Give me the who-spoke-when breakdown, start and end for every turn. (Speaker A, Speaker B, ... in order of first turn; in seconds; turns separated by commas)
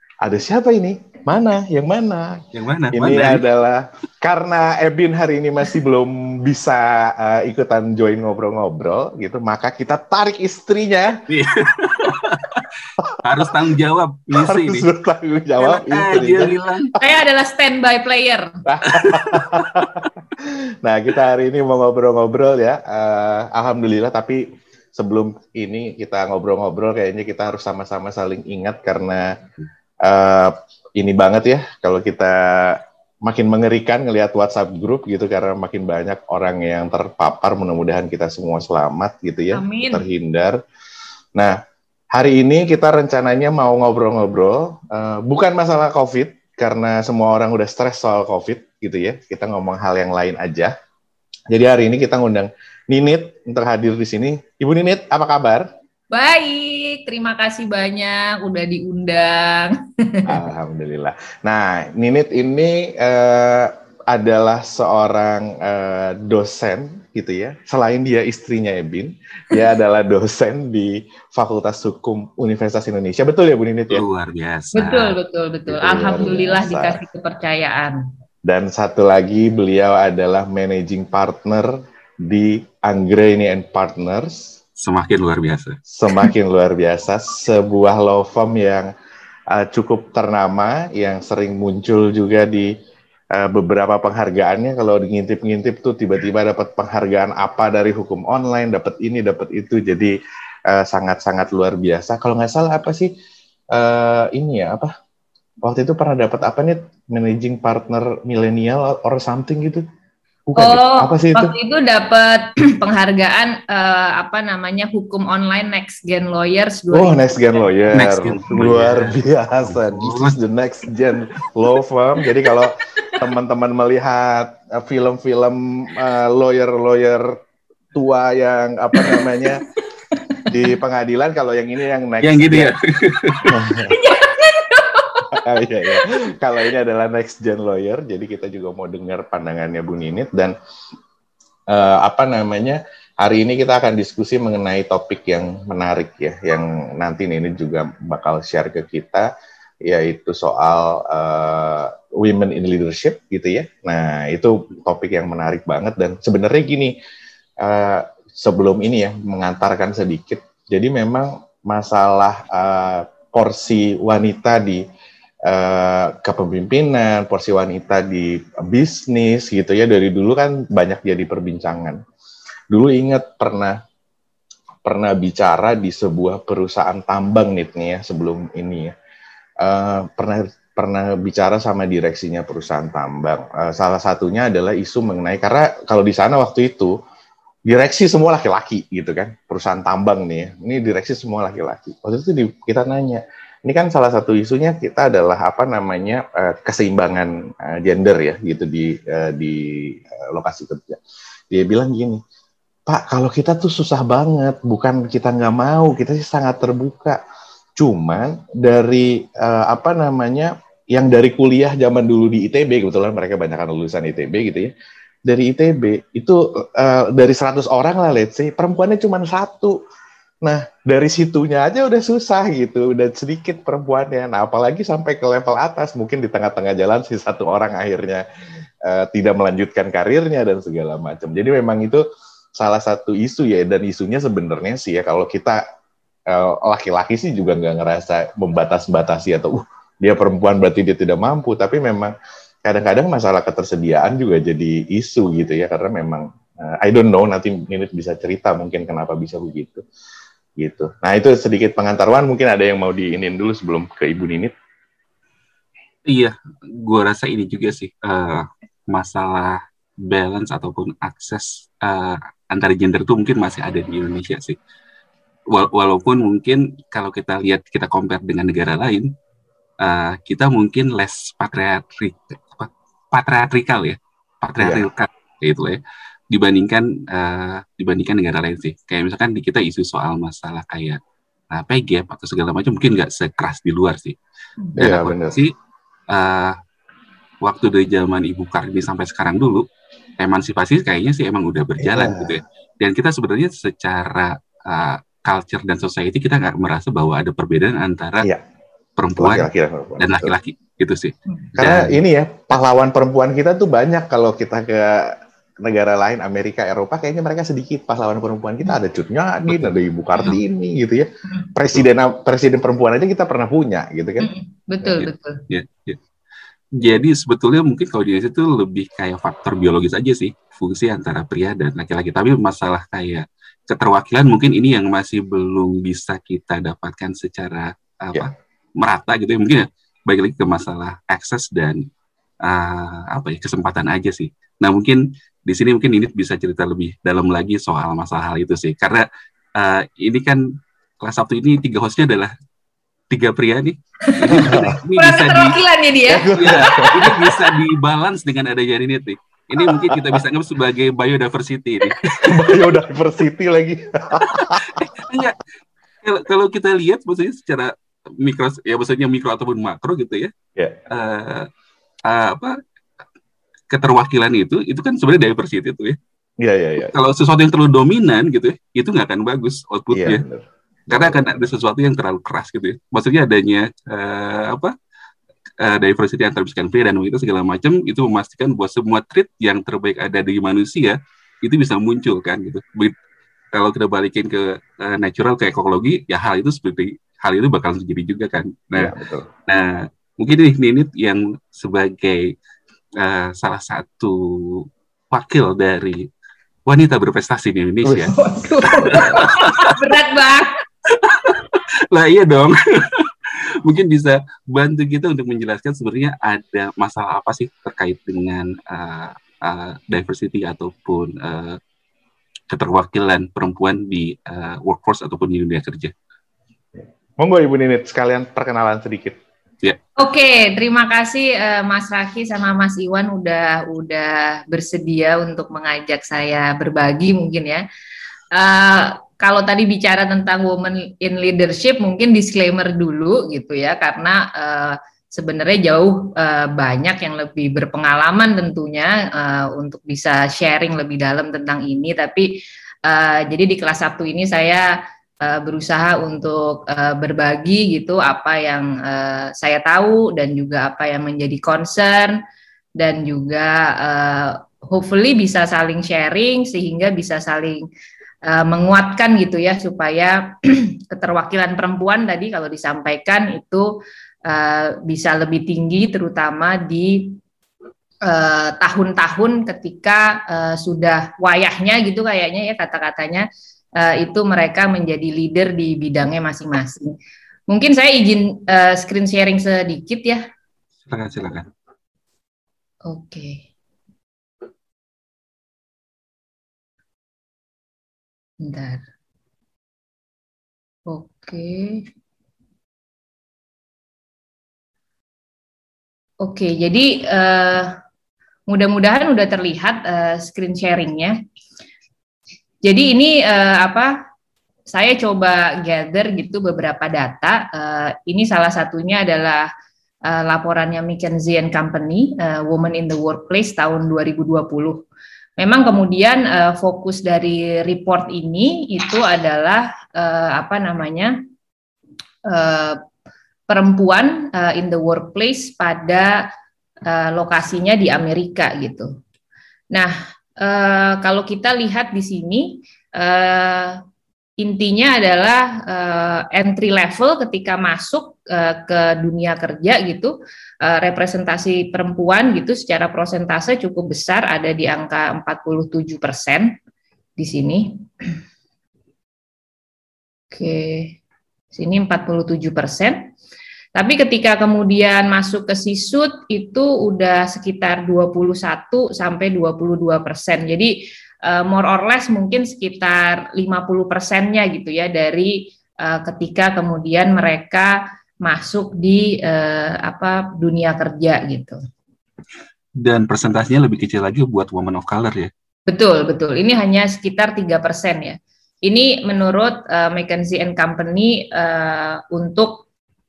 Speaker A: 0.2-11.2, Speaker B: 2.5-3.4, Speaker B: 11.3-12.7, Speaker A: 13.0-13.5, Speaker B: 13.2-14.9, Speaker A: 14.3-17.0, Speaker B: 15.6-16.9, Speaker C: 17.0-18.6, Speaker A: 18.6-29.3, Speaker B: 18.9-20.1, Speaker A: 30.0-40.6, Speaker C: 39.5-40.1, Speaker A: 42.1-50.7, Speaker A: 51.5-55.7, Speaker C: 56.1-60.3, Speaker A: 60.2-74.0, Speaker B: 73.9-75.2, Speaker C: 74.7-78.0, Speaker A: 75.7-77.0, Speaker A: 78.4-84.5, Speaker B: 84.8-85.8, Speaker A: 85.9-88.9, Speaker A: 89.5-92.7, Speaker A: 93.3-100.1, Speaker A: 100.7-103.1, Speaker A: 103.7-104.9, Speaker A: 105.6-109.8, Speaker A: 110.5-111.5, Speaker C: 110.5-117.3, Speaker A: 116.9-127.4, Speaker B: 117.9-119.2, Speaker B: 119.8-120.4, Speaker A: 127.9-129.7, Speaker A: 130.4-132.7, Speaker B: 132.2-133.7, Speaker A: 133.5-133.9, Speaker C: 133.8-135.4, Speaker A: 135.3-140.5, Speaker A: 141.7-149.3, Speaker A: 149.8-156.9, Speaker A: 157.6-164.8, Speaker A: 165.4-172.0, Speaker A: 172.7-173.8, Speaker A: 174.8-178.9, Speaker A: 179.6-186.9, Speaker A: 187.7-202.2, Speaker A: 202.9-207.2, Speaker A: 207.8-214.7, Speaker A: 215.3-219.8, Speaker A: 220.4-228.2, Speaker A: 228.8-232.0, Speaker A: 232.6-235.6, Speaker A: 236.3-249.8, Speaker A: 250.6-254.5, Speaker B: 256.1-264.6, Speaker B: 265.5-269.1, Speaker B: 269.8-275.8, Speaker A: 274.6-274.9, Speaker B: 276.3-281.0, Speaker B: 281.5-284.2, Speaker A: 284.8-285.4, Speaker B: 284.8-285.5, Speaker B: 286.1-286.6, Speaker B: 287.4-289.6, Speaker B: 290.2-298.3, Speaker A: 291.8-292.4, Speaker B: 299.0-302.0, Speaker A: 299.2-300.3, Speaker A: 301.6-314.3, Speaker B: 309.5-310.4, Speaker C: 314.2-315.4, Speaker B: 315.0-316.0, Speaker B: 316.8-331.8, Speaker B: 332.4-340.4, Speaker B: 341.0-342.3, Speaker B: 343.1-345.6, Speaker C: 344.0-347.5, Speaker A: 344.3-344.7, Speaker A: 346.1-347.3, Speaker B: 346.4-352.6, Speaker A: 349.6-350.2, Speaker A: 352.3-354.8, Speaker B: 354.3-355.4, Speaker B: 356.0-360.3, Speaker B: 360.9-361.5, Speaker B: 362.1-362.6, Speaker B: 363.7-366.0, Speaker A: 366.4-366.9, Speaker B: 366.9-370.2, Speaker A: 369.9-371.5, Speaker B: 370.9-374.7, Speaker B: 375.6-382.9, Speaker B: 383.5-388.9, Speaker A: 388.7-389.3, Speaker B: 389.5-392.3, Speaker B: 393.0-396.0, Speaker B: 396.6-398.1, Speaker A: 397.8-398.1, Speaker C: 398.1-400.5, Speaker B: 398.7-399.8, Speaker A: 398.9-399.2, Speaker B: 400.9-411.6, Speaker B: 412.5-415.9, Speaker A: 416.7-419.2, Speaker C: 420.0-427.6, Speaker C: 428.3-452.2, Speaker C: 452.8-457.6, Speaker C: 458.2-463.7, Speaker C: 464.2-467.2, Speaker C: 468.1-477.0, Speaker C: 477.5-480.2, Speaker B: 480.9-481.5, Speaker C: 482.9-483.4, Speaker C: 488.4-488.8, Speaker C: 490.9-491.8, Speaker C: 496.2-497.7, Speaker C: 498.5-501.1, Speaker C: 502.6-504.0, Speaker C: 504.7-509.5, Speaker C: 510.1-514.8, Speaker C: 515.4-521.1, Speaker C: 522.2-522.8, Speaker C: 523.5-526.3, Speaker C: 526.9-528.9, Speaker C: 529.7-533.8, Speaker C: 534.4-546.5, Speaker C: 547.2-547.8, Speaker C: 550.3-551.0, Speaker C: 551.5-553.1, Speaker C: 553.7-571.6, Speaker B: 572.8-575.3, Speaker C: 575.7-582.6